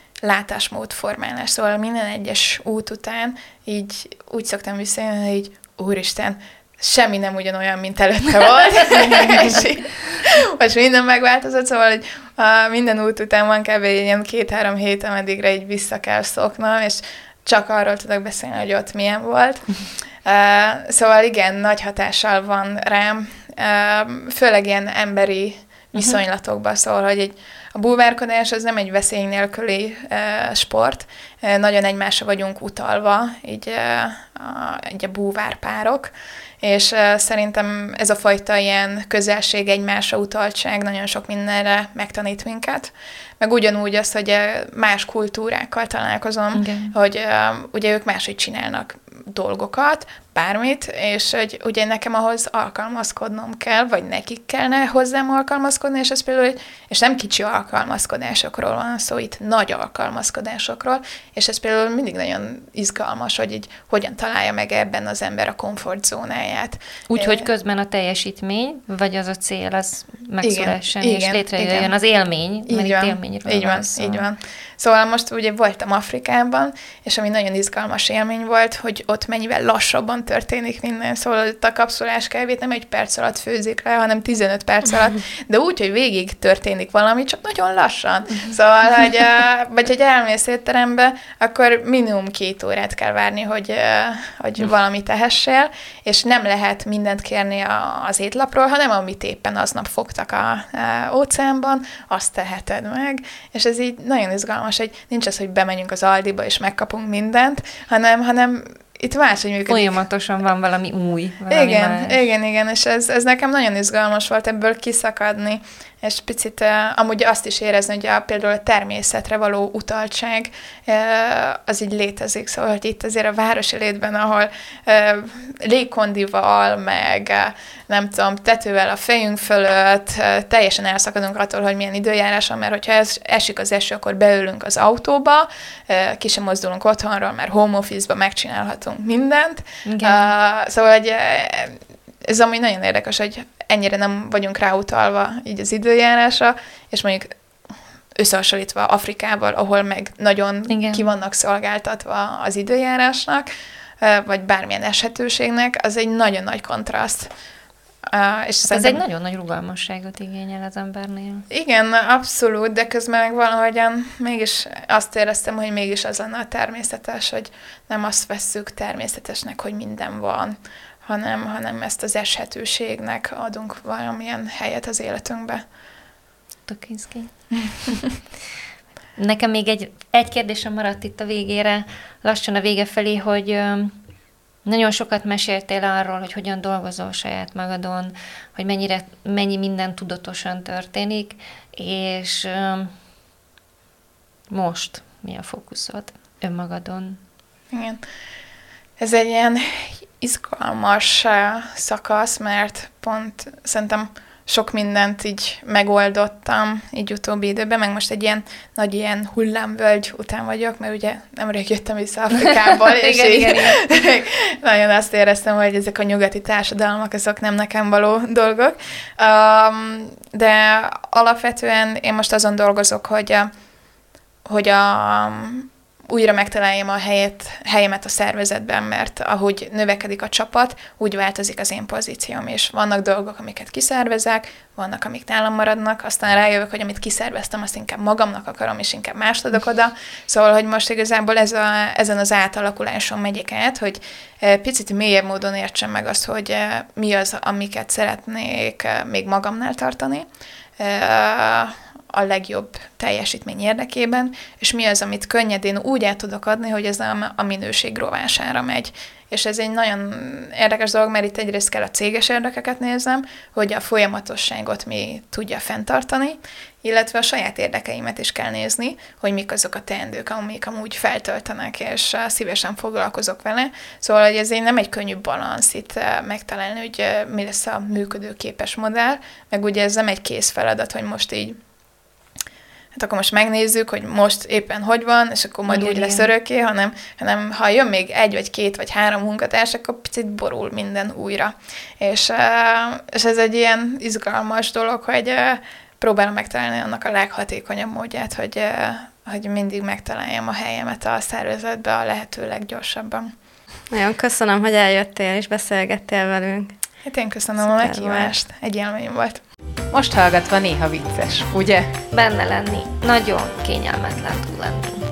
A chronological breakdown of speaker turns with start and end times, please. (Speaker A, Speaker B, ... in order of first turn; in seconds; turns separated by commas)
Speaker A: 0.2-67.5, Speaker B: 46.5-46.9, Speaker B: 67.1-74.2, Speaker A: 70.4-71.9, Speaker A: 72.7-110.0, Speaker B: 109.7-112.2, Speaker A: 111.5-147.3, Speaker B: 139.8-140.3, Speaker A: 148.2-153.5, Speaker B: 150.7-151.1, Speaker A: 154.0-157.3, Speaker A: 158.1-159.0, Speaker B: 158.7-161.5, Speaker A: 161.5-175.6, Speaker B: 176.7-177.3, Speaker A: 177.7-178.1, Speaker B: 179.2-183.9, Speaker B: 184.7-192.9, Speaker B: 194.5-197.2, Speaker A: 197.7-198.0, Speaker A: 199.0-223.5, Speaker B: 212.3-213.8, Speaker A: 224.5-250.3, Speaker A: 250.8-281.6, Speaker A: 282.9-303.3, Speaker B: 285.7-286.3, Speaker C: 303.9-306.7, Speaker A: 307.1-309.4, Speaker C: 307.6-308.3, Speaker D: 309.9-311.9, Speaker B: 312.1-315.0